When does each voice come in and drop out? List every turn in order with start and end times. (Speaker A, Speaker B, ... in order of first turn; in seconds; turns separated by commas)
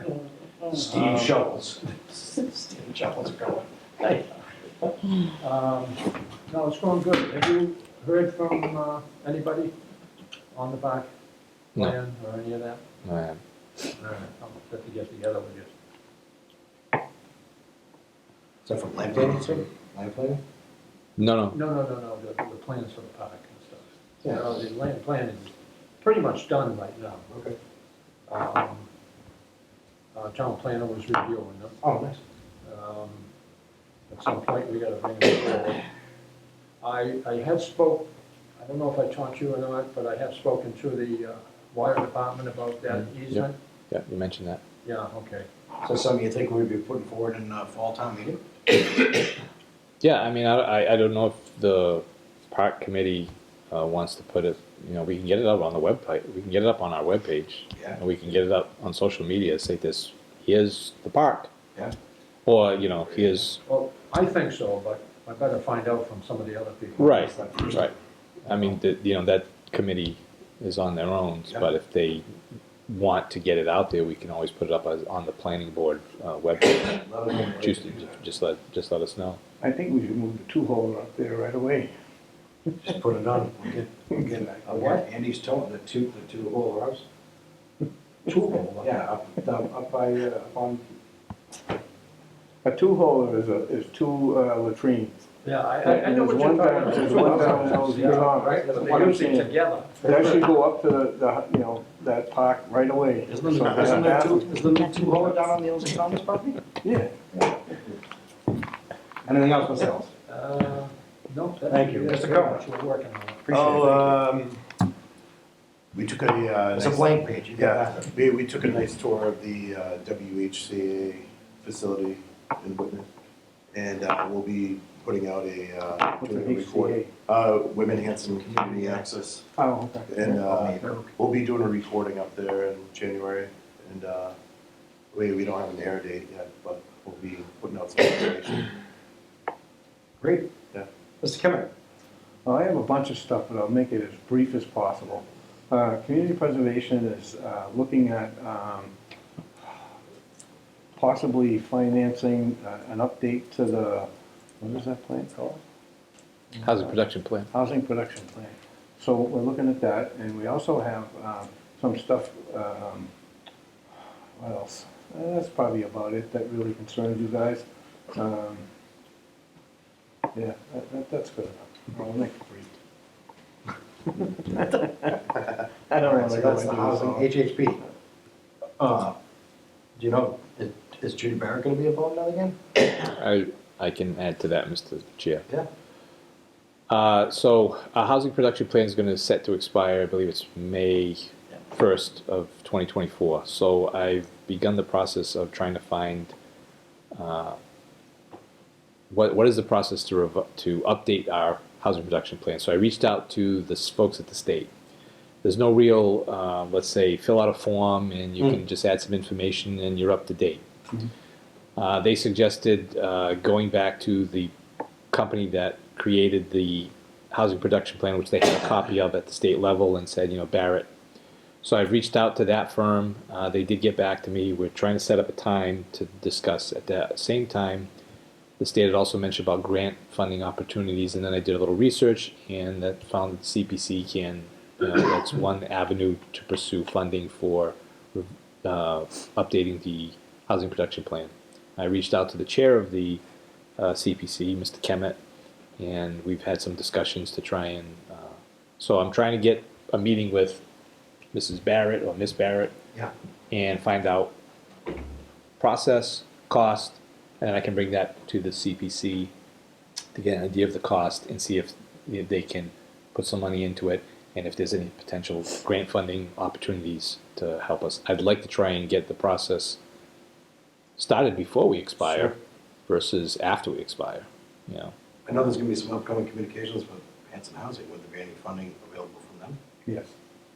Speaker A: 0.7-4.2, Speaker B: 5.3-9.7, Speaker B: 10.5-11.1, Speaker B: 11.8-12.8, Speaker C: 13.1-13.4, Speaker B: 14.0-15.7, Speaker A: 18.6-20.4, Speaker C: 21.2-21.6, Speaker B: 21.5-27.3, Speaker A: 27.3-27.6, Speaker B: 28.3-28.9, Speaker B: 30.1-31.8, Speaker A: 31.8-32.2, Speaker B: 32.6-33.3, Speaker B: 34.1-35.8, Speaker B: 36.8-43.5, Speaker C: 42.9-44.6, Speaker B: 44.9-45.5, Speaker A: 45.8-48.4, Speaker C: 50.0-61.5, Speaker C: 62.5-63.6, Speaker B: 63.6-67.7, Speaker C: 67.0-67.9, Speaker C: 68.5-72.3, Speaker C: 72.9-79.4, Speaker A: 76.8-78.1, Speaker D: 79.6-81.9, Speaker A: 82.8-87.0, Speaker D: 84.2-84.7, Speaker B: 84.7-85.0, Speaker A: 88.3-90.8, Speaker D: 92.6-95.2, Speaker B: 95.4-100.3, Speaker D: 95.8-104.5, Speaker A: 97.0-99.2, Speaker A: 103.3-106.6, Speaker D: 106.8-107.3, Speaker A: 109.3-110.1, Speaker B: 110.3-113.5, Speaker A: 111.7-112.6, Speaker A: 113.5-114.2, Speaker E: 113.5-114.7, Speaker E: 115.9-123.1, Speaker A: 116.8-118.0, Speaker E: 123.7-129.5, Speaker D: 126.2-127.1, Speaker A: 128.0-129.1, Speaker D: 129.6-130.4, Speaker E: 130.1-134.4, Speaker A: 130.4-131.1, Speaker E: 135.1-138.7, Speaker A: 140.2-140.6, Speaker A: 141.2-141.7, Speaker D: 142.4-148.9, Speaker D: 151.0-154.1, Speaker D: 154.6-155.6, Speaker D: 156.5-157.0, Speaker C: 156.6-157.5, Speaker D: 157.5-163.1, Speaker D: 164.4-168.7, Speaker D: 170.3-172.7, Speaker D: 174.2-175.2, Speaker D: 175.9-177.3, Speaker A: 176.1-177.8, Speaker A: 178.8-179.2, Speaker A: 180.0-182.6, Speaker C: 182.9-185.5, Speaker C: 186.9-196.3, Speaker C: 197.2-197.6, Speaker C: 199.1-204.7, Speaker C: 205.4-210.6, Speaker C: 211.8-214.5, Speaker C: 215.1-220.9, Speaker C: 221.6-227.9, Speaker C: 228.6-243.2, Speaker C: 243.8-245.2, Speaker C: 245.8-250.6, Speaker C: 251.3-252.7, Speaker C: 253.5-254.3, Speaker C: 255.6-259.3, Speaker C: 260.1-269.8, Speaker C: 271.0-272.3, Speaker C: 272.9-274.9, Speaker A: 275.3-279.6, Speaker D: 279.9-280.1